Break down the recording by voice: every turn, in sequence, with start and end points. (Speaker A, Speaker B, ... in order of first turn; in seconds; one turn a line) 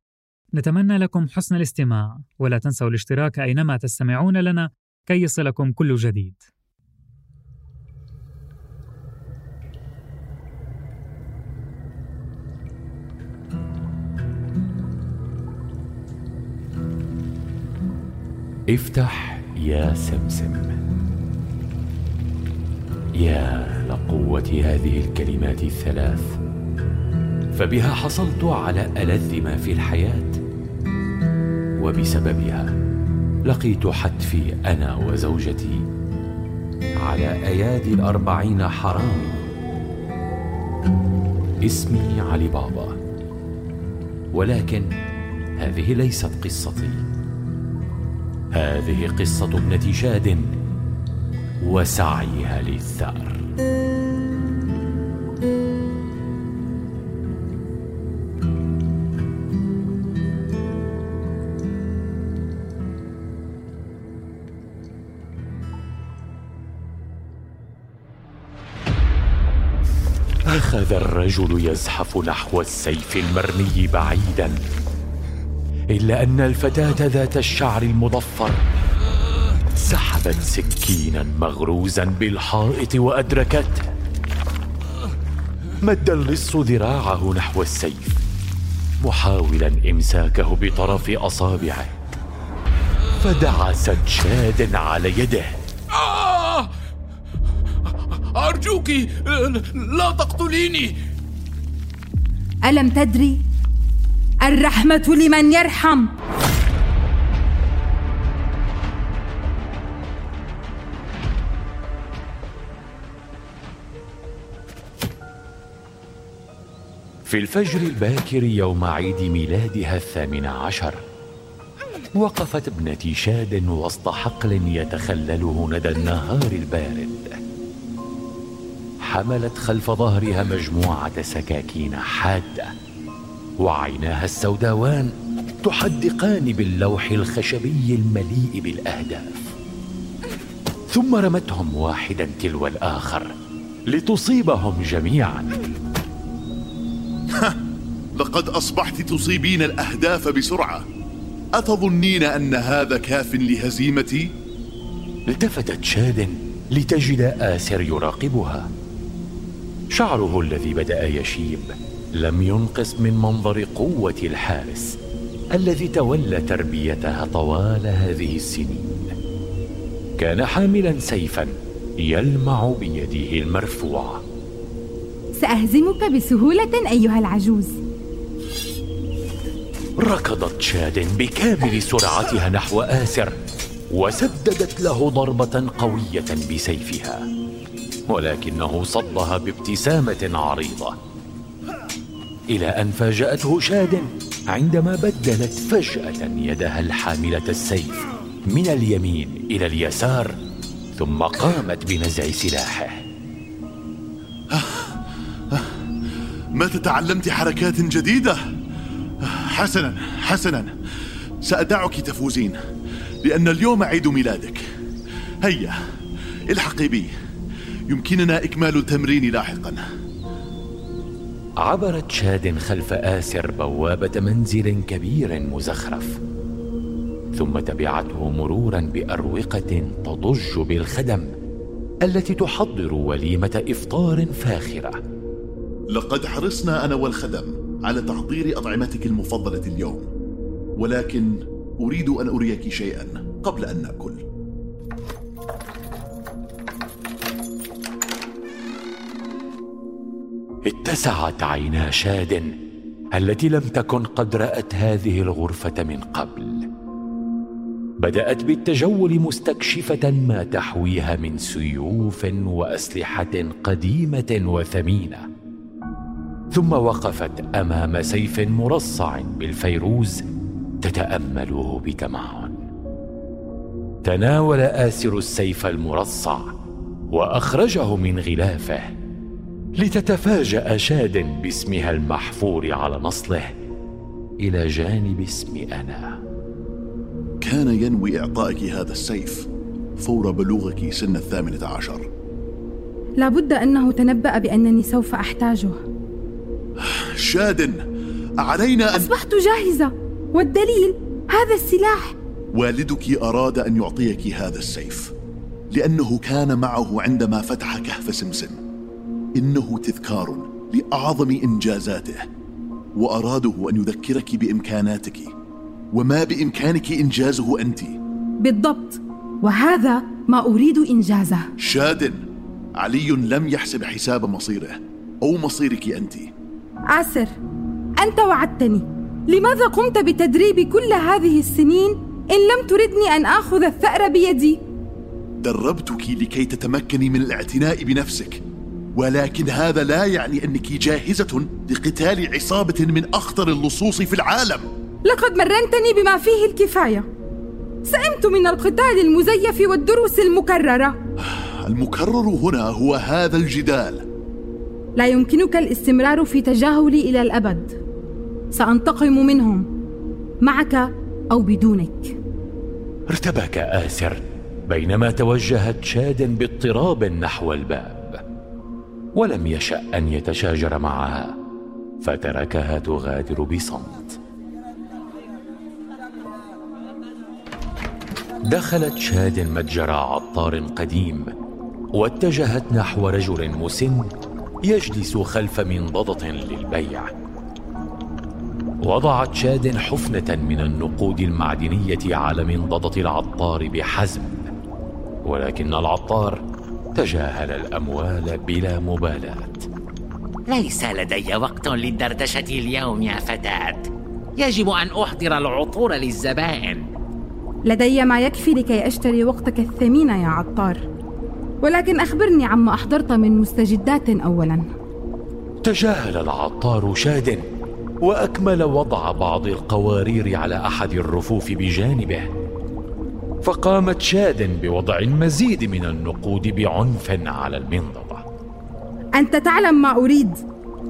Speaker A: 0.5-6.4
Speaker B: 18.7-20.8
Speaker B: 23.2-26.4
Speaker B: 27.6-30.4
Speaker B: 31.8-32.7
Speaker B: 33.5-35.8
Speaker B: 37.0-39.4
Speaker B: 41.6-43.0
Speaker B: 44.3-44.9
Speaker B: 45.6-47.0
Speaker B: 48.5-50.5
Speaker B: 51.6-53.4
Speaker B: 70.5-74.6
Speaker B: 75.9-78.6
Speaker B: 79.8-83.9
Speaker B: 85.8-88.2
Speaker B: 89.0-91.9
Speaker B: 93.2-95.5
Speaker C: 95.9-96.7
Speaker C: 98.1-101.0
Speaker D: 102.6-103.4
Speaker D: 104.4-106.1
Speaker B: 117.2-121.0
Speaker B: 122.2-127.4
Speaker B: 129.0-132.7
Speaker B: 133.6-135.1
Speaker B: 135.6-139.5
Speaker B: 140.9-143.3
Speaker B: 143.9-145.5
Speaker E: 148.2-150.8
Speaker E: 151.5-154.3
Speaker B: 155.3-158.7
Speaker B: 159.9-164.9
Speaker B: 165.5-169.1
Speaker B: 170.2-171.5
Speaker B: 172.0-174.2
Speaker D: 175.3-177.8
Speaker B: 180.0-183.3
Speaker B: 183.9-187.2
Speaker B: 188.1-190.9
Speaker B: 192.5-200.3
Speaker B: 200.9-203.0
Speaker E: 204.5-204.9
Speaker E: 206.6-208.4
Speaker E: 209.2-210.7
Speaker E: 211.4-212.6
Speaker E: 213.2-214.6
Speaker E: 215.4-215.7
Speaker E: 216.5-217.1
Speaker E: 217.9-219.8
Speaker B: 221.6-226.2
Speaker B: 227.3-231.3
Speaker B: 232.0-235.0
Speaker E: 235.9-240.1
Speaker E: 240.8-244.2
Speaker B: 250.7-252.5
Speaker B: 253.1-256.6
Speaker B: 258.0-265.2
Speaker B: 266.5-270.2
Speaker B: 270.8-272.6
Speaker B: 274.0-276.5
Speaker B: 277.1-278.9
Speaker B: 279.8-283.5
Speaker B: 284.4-286.1
Speaker E: 287.4-292.1
Speaker D: 293.2-295.8
Speaker E: 296.8-297.8
Speaker E: 298.4-299.1
Speaker D: 298.9-302.1
Speaker E: 302.5-305.1
Speaker E: 305.7-308.6
Speaker E: 309.4-312.2
Speaker E: 312.9-315.3
Speaker E: 315.9-317.9
Speaker D: 318.4-321.5
Speaker E: 321.6-322.2
Speaker E: 322.8-326.3
Speaker D: 326.9-327.4
Speaker D: 328.0-334.6
Speaker E: 335.4-338.4
Speaker E: 338.9-344.7
Speaker D: 345.0-347.1
Speaker D: 347.8-351.0
Speaker E: 351.3-354.0
Speaker D: 354.9-357.7
Speaker D: 358.5-359.7
Speaker D: 360.4-362.1
Speaker B: 363.1-368.2
Speaker B: 369.1-371.3
Speaker B: 372.0-374.2
Speaker B: 378.5-381.3
Speaker B: 381.9-384.1
Speaker B: 384.6-387.1
Speaker B: 388.8-394.5
Speaker B: 395.2-396.4
Speaker B: 396.9-399.7
Speaker F: 400.5-406.9
Speaker D: 407.6-410.8
Speaker D: 411.6-414.7
Speaker B: 415.6-417.4
Speaker B: 418.0-422.3
Speaker B: 423.4-428.2
Speaker D: 429.1-430.4